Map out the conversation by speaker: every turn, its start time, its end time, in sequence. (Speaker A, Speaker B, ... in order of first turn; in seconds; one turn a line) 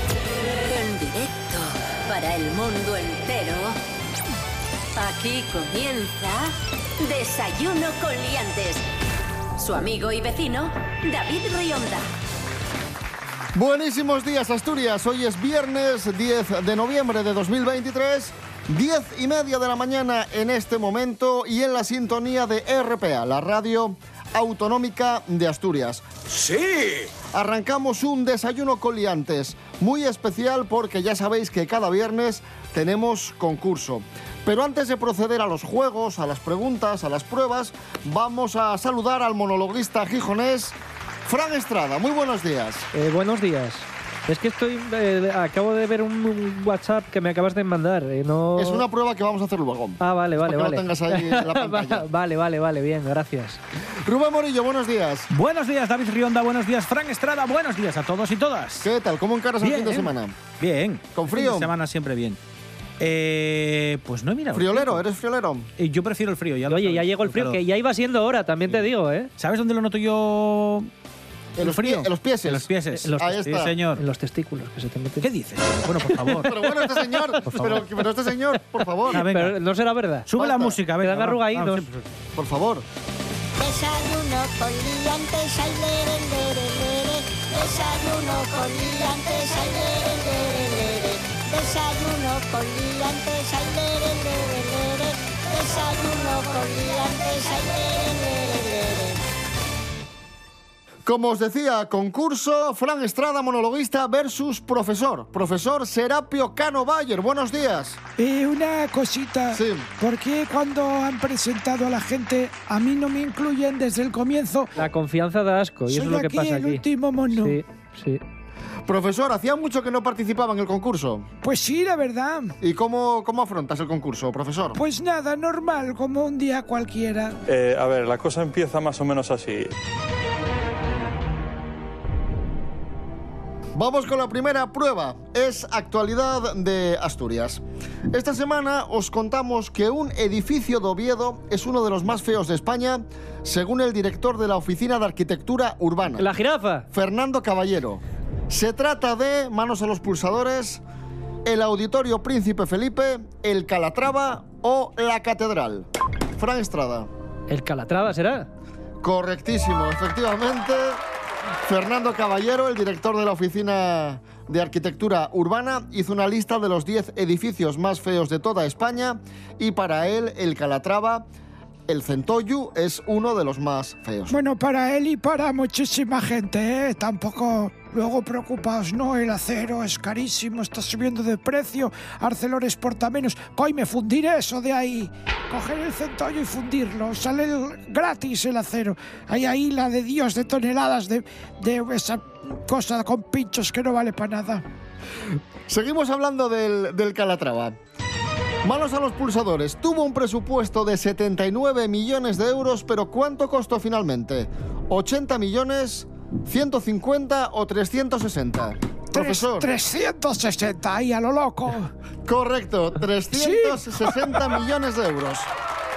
Speaker A: 0.6-3.8
Speaker A: 5.0-8.8
Speaker A: 9.6-12.1
Speaker B: 13.5-26.1
Speaker B: 27.3-42.9
Speaker C: 42.9-48.9
Speaker B: 48.5-52.0
Speaker C: 50.0-53.6
Speaker B: 54.0-55.3
Speaker D: 55.3-58.9
Speaker B: 58.8-60.3
Speaker D: 59.6-62.4
Speaker B: 61.1-61.7
Speaker D: 63.0-65.0
Speaker B: 64.5-65.7
Speaker D: 65.8-67.6
Speaker C: 66.7-69.3
Speaker D: 69.4-70.9
Speaker B: 71.6-73.8
Speaker D: 71.6-74.0
Speaker C: 72.9-73.3
Speaker C: 73.9-75.3
Speaker D: 75.2-76.8
Speaker C: 75.9-76.4
Speaker B: 76.4-79.2
Speaker D: 77.4-77.8
Speaker D: 79.1-79.6
Speaker C: 79.1-80.3
Speaker D: 80.3-82.0
Speaker B: 80.3-80.8
Speaker C: 81.0-81.9
Speaker B: 82.3-82.8
Speaker E: 83.6-99.2
Speaker B: 101.0-108.0
Speaker F: 108.2-114.7
Speaker B: 109.5-109.9
Speaker C: 114.8-118.2
Speaker F: 115.9-117.6
Speaker B: 118.8-121.3
Speaker F: 121.4-122.6
Speaker B: 122.6-124.8
Speaker F: 124.7-127.4
Speaker G: 127.5-129.7
Speaker B: 133.7-146.3
Speaker C: 146.2-146.9
Speaker B: 146.9-150.8
Speaker B: 151.4-157.1
Speaker C: 157.5-158.5
Speaker B: 159.0-161.0
Speaker B: 161.6-171.2
Speaker B: 171.9-174.3
Speaker F: 174.3-194.6
Speaker B: 195.7-197.8
Speaker B: 198.6-209.7
Speaker F: 209.1-211.9
Speaker B: 212.2-215.5
Speaker F: 213.3-214.5